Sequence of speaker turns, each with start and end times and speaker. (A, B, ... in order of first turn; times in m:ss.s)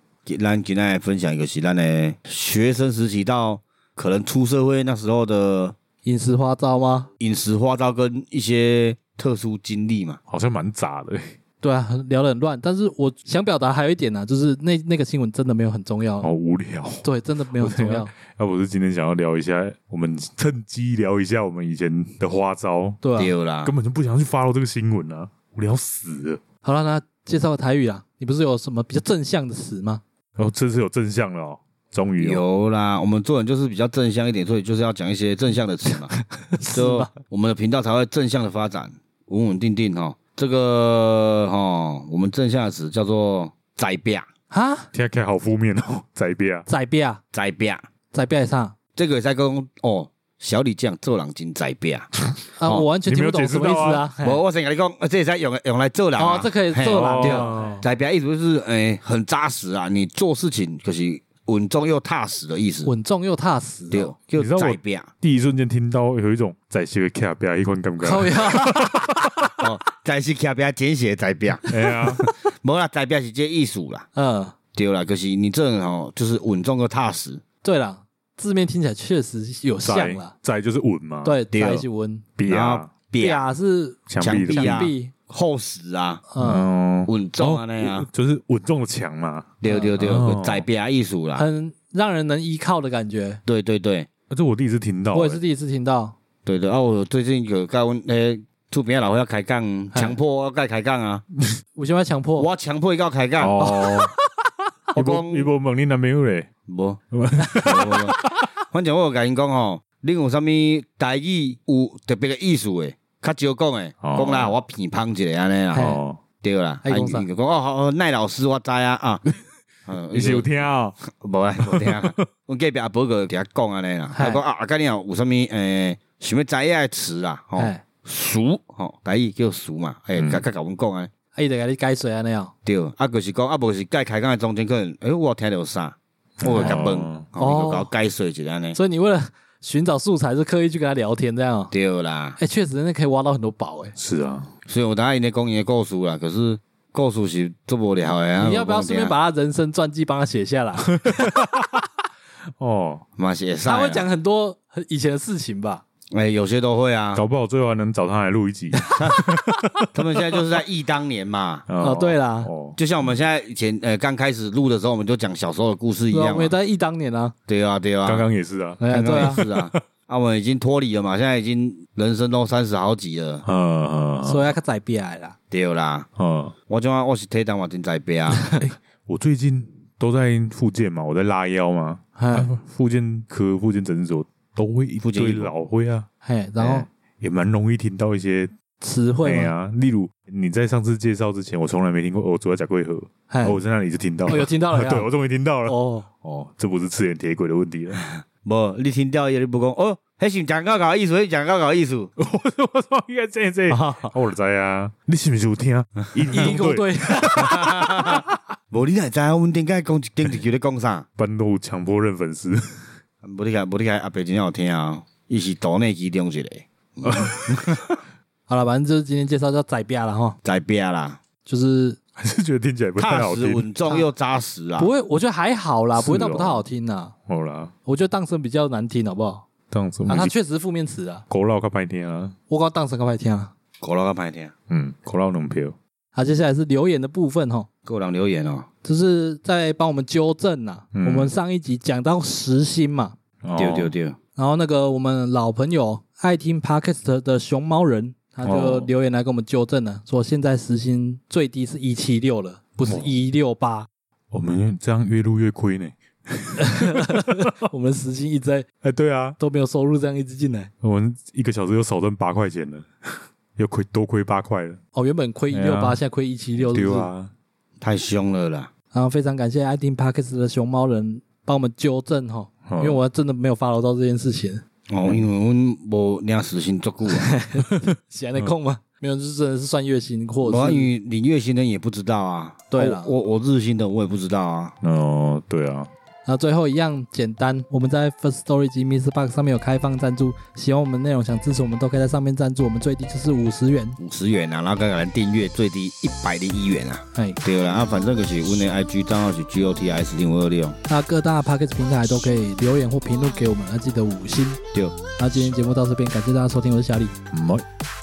0:00.3-0:05.8 A
0:06.0-0:07.1 B
0:07.2-0:10.2 A
0:10.3-0:11.4 C
0:11.6-0:16.3 B
0:16.2-0:23.0 C
0:17.0-0:18.1 B
0:23.0-0:23.3 B
0:23.2-0:23.7 A
0:23.6-0:26.4 C
0:26.6-0:30.0 B
0:30.4-0:32.4 C
0:32.2-0:36.2 A
0:36.5-0:37.1 B
0:36.7-0:44.3 A
0:44.5-0:44.9 B
0:44.9-0:46.7 C
0:46.7-0:47.2 B
0:47.3-0:47.8 A
0:48.1-0:48.8 B
0:49.0-0:52.1 A
0:52.6-0:54.4 B
0:53.0-0:54.1 C
0:54.2-1:02.9 A
0:56.2-0:57.8 B
0:56.8-0:57.8 C
1:02.8-1:04.1 B
1:03.9-1:05.1 A
1:04.4-1:09.5 C
1:08.0-1:08.9 B
1:09.6-1:14.1 A
1:11.7-1:12.3 C
1:14.2-1:14.6 B
1:14.7-1:17.4 A
1:17.6-1:20.3 B
1:19.8-1:21.4 C
1:21.2-1:22.2 B
1:21.5-1:21.8 A
1:22.4-1:22.9 C
1:22.5-1:23.5 A
1:23.2-1:25.1 B
1:24.1-1:24.9 C
1:24.2-1:26.3 A
1:26.3-1:26.7 B
1:26.4-1:30.6 C
1:27.1-1:28.1 A
1:29.6-1:31.4 A
1:31.4-1:33.4 B
1:33.5-1:34.1 A
1:34.3-1:35.4 C
1:35.1-1:36.2 B
1:36.4-1:41.2 A
1:41.8-1:42.5 B
1:42.4-1:43.6 A
1:43.4-1:44.1 C
1:43.6-1:44.1 B
1:44.9-1:46.5 C
1:45.0-1:45.5 A
1:46.7-1:47.0 A
1:47.1-1:48.5 C
1:47.6-1:48.2 A
1:48.7-1:55.9 A
1:54.0-1:54.6 C
1:55.7-1:56.0 B
1:55.8-1:56.2 C
1:56.4-1:59.2 A
1:56.8-1:57.3 B
1:59.9-2:00.5 A
2:00.1-2:01.0 C
2:01.1-2:11.1 A
2:01.6-2:02.2 C
2:04.1-2:04.4 B
2:07.6-2:07.8 B
2:10.2-2:10.4 C
2:11.4-2:12.5 B
2:12.6-2:18.8 A
2:16.4-2:17.3 C
2:16.5-2:16.8 B
2:17.4-2:17.9 B
2:18.7-2:21.7 B
2:21.7-2:22.4 A
2:22.4-2:23.9 B
2:24.0-2:24.5 C
2:24.7-2:29.2 A
2:28.4-2:31.4 B
2:31.0-2:31.8 C
2:32.6-2:33.0 C
2:33.2-2:34.1 A
2:33.6-2:35.8 B
2:36.1-2:37.2 A
2:37.1-2:40.4 C
2:38.9-2:39.3 A
2:39.9-2:41.7 A
2:41.7-2:42.8 C
2:41.8-2:42.5 B
2:42.8-2:46.5 A
2:46.1-2:47.3 B
2:47.5-2:48.3 A
2:48.1-2:49.8 C
2:48.8-2:49.4 B
2:48.9-2:53.4 A
2:53.4-2:54.5 C
2:54.2-2:55.4 B
2:55.5-2:56.1 A
2:56.2-2:56.6 C
2:56.7-2:58.5 A
2:58.6-3:06.1 C
3:02.2-3:02.5 B
3:05.0-3:05.5 A
3:06.2-3:06.9 B
3:06.6-3:08.5 C
3:08.8-3:09.5 B
3:09.2-3:18.1 C
3:13.3-3:13.6 B
3:14.3-3:15.1 B
3:15.7-3:16.1 B
3:18.4-3:22.1 A
3:22.2-3:28.4 C
3:23.7-3:24.1 B
3:26.3-3:27.6 B
3:27.4-3:31.0 A
3:31.2-3:32.9 C
3:33.2-3:37.8 A
3:37.0-3:37.9 C
3:38.5-3:40.4 B
3:40.4-3:41.2 A
3:41.5-3:42.0 B
3:42.2-3:43.7 C
3:43.0-3:44.9 A
3:44.8-3:47.1 B
3:46.0-3:46.6 C
3:47.3-3:47.7 C
3:47.9-3:49.5 B
3:49.7-3:50.3 C
3:50.1-3:51.2 B
3:51.3-3:52.4 C
3:52.5-3:53.5 B
3:53.8-3:54.5 A
3:54.7-3:55.8 C
3:56.2-3:57.7 B
3:57.9-3:58.7 A
3:58.8-4:03.2 B
4:00.9-4:01.3 C
4:03.4-4:04.0 C
4:03.6-4:04.2 A
4:04.4-4:13.9 B
4:08.4-4:08.9 C
4:12.9-4:13.1 C
4:14.3-4:17.3 C
4:16.6-4:18.7 B
4:18.8-4:19.4 C
4:19.4-4:20.7 B
4:20.8-4:22.9 C
4:23.6-4:24.8 C
4:25.0-4:27.1 B
4:25.5-4:26.0 C
4:26.6-4:27.3 C
4:27.8-4:28.7 A
4:28.9-4:34.6 B
4:32.7-4:33.0 C
4:34.9-4:37.4 A
4:37.1-4:40.9 B
4:40.4-4:44.8 A
4:42.7-4:43.2 B
4:44.8-4:45.9 C
4:46.3-4:54.0 B
4:54.0-5:00.8 A
5:00.9-5:04.6 B
5:05.2-5:07.2 B
5:07.3-5:07.6 C